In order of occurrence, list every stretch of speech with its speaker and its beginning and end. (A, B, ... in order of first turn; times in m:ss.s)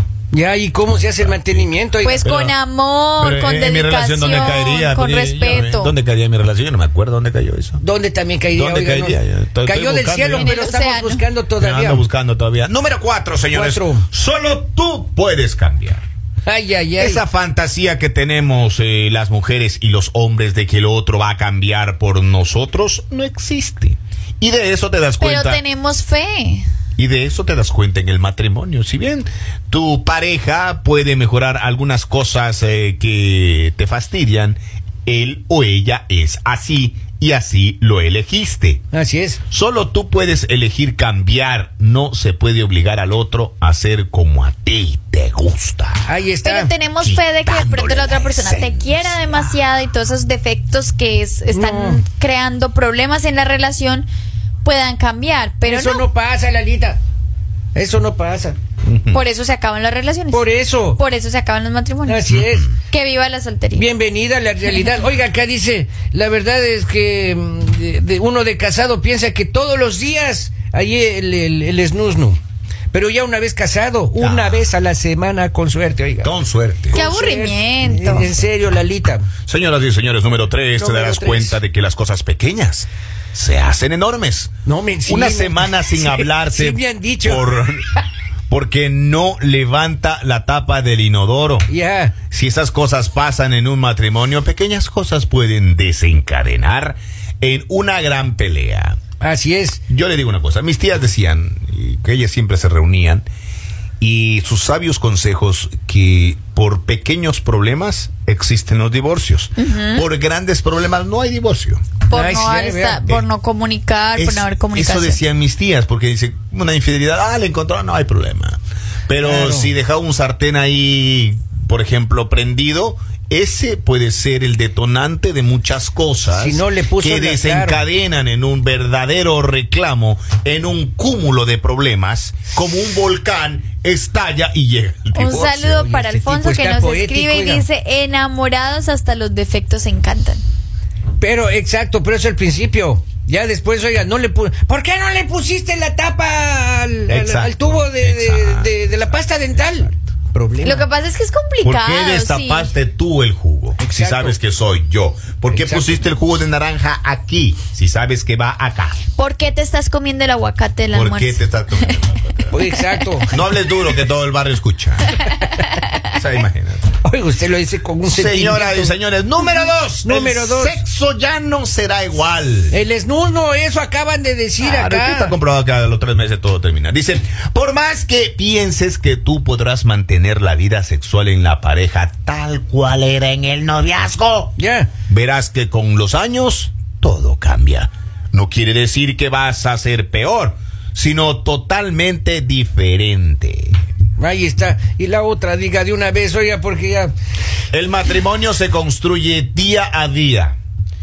0:00.3-0:02.3 A
0:01.1-0:01.7 B
0:02.0-0:05.9 C
0:02.2-0:02.5 B
0:03.2-0:07.8 B
0:07.8-0:12.0 A
0:08.6-0:10.6 B
0:10.3-0:11.2 C
0:11.6-0:16.0 B
0:13.5-0:14.1 A
0:16.5-0:17.2 A
0:17.0-0:25.6 B
0:25.2-0:26.7 C
0:27.0-0:38.8 B
0:38.9-0:39.4 A
0:39.5-0:46.1 B
0:46.1-0:46.7 A
0:46.4-0:54.1 C
0:47.0-0:49.4 B
0:51.5-0:52.0 A
0:54.6-0:56.0 C
0:55.6-0:57.0 A
0:57.8-0:58.6 A
0:58.8-0:59.2 B
0:59.1-1:02.3 C
1:00.3-1:01.0 A
1:02.1-1:02.7 A
1:02.3-1:02.6 B
1:02.8-1:03.9 C
1:03.7-1:12.4 A
1:12.9-1:16.3 A
1:14.2-1:14.6 B
1:16.2-1:17.0 B
1:16.9-1:19.3 A
1:16.9-1:18.3 C
1:19.5-1:24.5 B
1:20.8-1:21.6 A
1:24.7-1:27.6 A
1:25.1-1:27.9 B
1:28.5-1:31.7 B
1:31.7-1:32.2 A
1:32.3-1:39.0 B
1:39.2-1:39.8 A
1:39.9-1:43.2 B
1:44.0-1:51.8 B
1:49.6-1:50.0 C
1:52.1-1:55.2 C
1:52.1-1:53.2 A
1:54.2-2:15.9 B
1:59.2-1:59.7 A
2:06.3-2:07.8 A
2:15.1-2:20.4 C
2:15.3-2:17.6 A
2:21.2-2:30.9 A
2:27.1-2:30.0 B
2:30.6-2:32.7 C
2:31.6-2:39.0 B
2:33.8-2:34.4 A
2:35.5-2:36.0 A
2:39.2-2:42.0 C
2:40.9-2:42.6 B
2:42.5-2:43.3 A
2:43.3-2:45.2 B
2:46.1-2:46.9 B
2:47.0-2:49.0 A
2:48.1-2:52.8 B
2:50.0-2:50.8 A
2:52.7-2:55.4 A
2:54.6-3:04.5 B
3:04.6-3:04.9 A
3:05.1-3:13.8 B
3:14.2-3:17.1 A
3:17.7-3:20.6 B